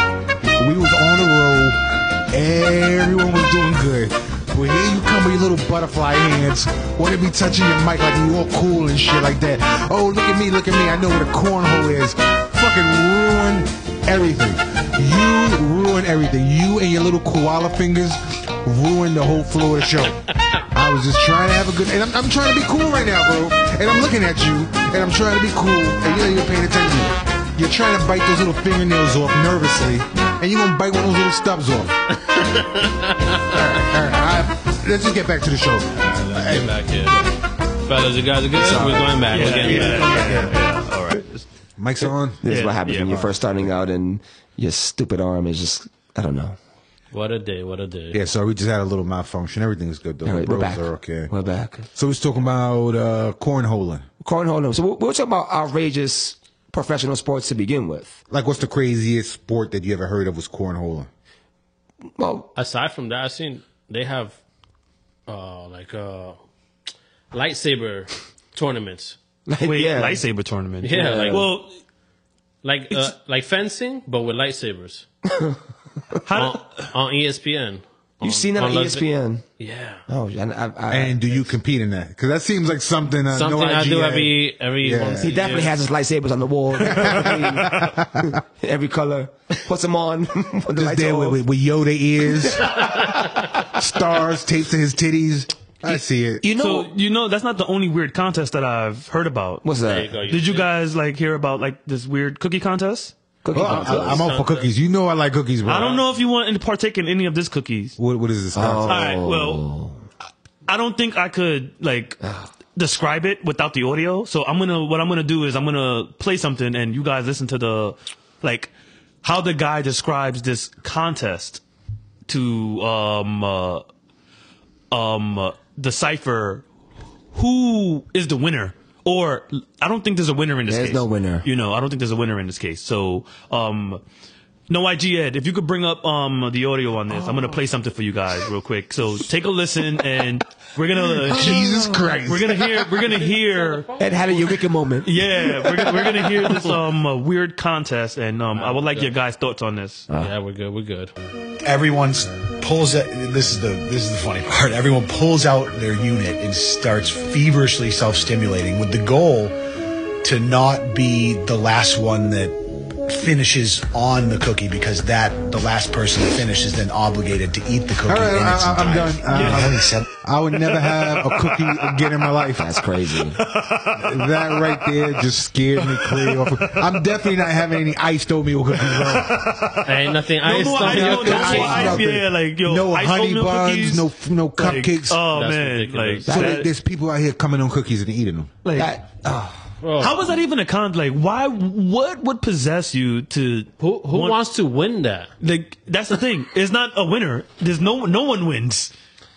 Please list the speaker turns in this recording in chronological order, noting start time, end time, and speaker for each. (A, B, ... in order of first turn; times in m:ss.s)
0:00.6-0:32.0 A
0:32.3-0:33.6 B
0:33.5-0:36.8 A
0:36.0-0:37.3 B
0:37.8-0:40.5 B
0:38.6-0:39.7 C
0:39.3-0:41.4 D
0:39.5-0:40.6 A
0:41.8-0:43.6 A
0:42.4-0:46.6 C
0:42.4-0:43.2 D
0:47.1-0:48.2 B
0:48.1-0:51.3 A
0:50.2-0:51.9 C
0:51.9-0:54.0 A
0:54.2-0:58.2 C
0:58.3-1:01.1 A
1:02.2-1:02.5 C
1:02.5-1:04.4 B
1:05.3-1:06.4 B
1:07.3-1:09.2 B
1:09.4-1:10.2 C
1:09.6-1:11.7 D
1:10.8-1:11.5 B
1:10.9-1:11.4 C
1:12.6-1:15.0 B
1:15.3-1:15.6 C
1:16.3-1:16.9 D
1:16.3-1:20.0 B
1:18.2-1:19.4 C
1:20.1-1:21.5 C
1:20.9-1:25.3 A
1:23.3-1:25.7 B
1:25.2-1:31.4 C
1:26.8-1:28.4 A
1:30.7-1:36.4 A
1:36.4-1:36.9 C
1:36.6-1:43.1 D
1:39.6-1:40.1 C
1:39.8-1:40.7 B
1:43.4-1:44.3 C
1:43.5-1:46.0 A
1:43.5-1:44.7 B
1:45.6-1:48.0 D
1:48.0-1:49.2 A
1:48.5-1:50.0 C
1:48.8-1:49.6 D
1:50.7-1:52.2 D
1:52.2-1:52.5 C
1:52.7-1:58.7 D
1:59.2-2:01.6 D
2:02.3-2:03.8 D
2:04.9-2:06.6 D
2:07.3-2:14.0 D
2:10.7-2:11.5 C
2:14.7-2:23.9 D
2:21.2-2:22.8 A
2:23.2-2:24.4 B
2:24.0-2:25.1 C
2:25.0-2:30.1 D
2:28.5-2:29.1 B
2:30.1-2:31.1 B
2:31.6-2:39.5 E
2:40.2-2:50.1 E
2:48.0-2:52.8 A
2:49.3-2:49.8 D
2:50.6-2:52.0 D
2:52.6-2:53.4 C
2:53.3-2:55.2 D
2:54.0-2:59.6 A
2:55.8-2:56.8 D
2:58.8-3:06.7 D
2:59.8-3:02.0 B
3:00.6-3:05.2 A
3:01.3-3:01.9 C
3:05.3-3:06.4 B
3:06.3-3:06.6 C
3:06.3-3:08.5 A
3:08.6-3:08.9 D
3:08.7-3:09.7 C
3:09.8-3:10.2 B
3:10.0-3:14.4 D
3:13.8-3:15.3 B
3:15.4-3:18.9 D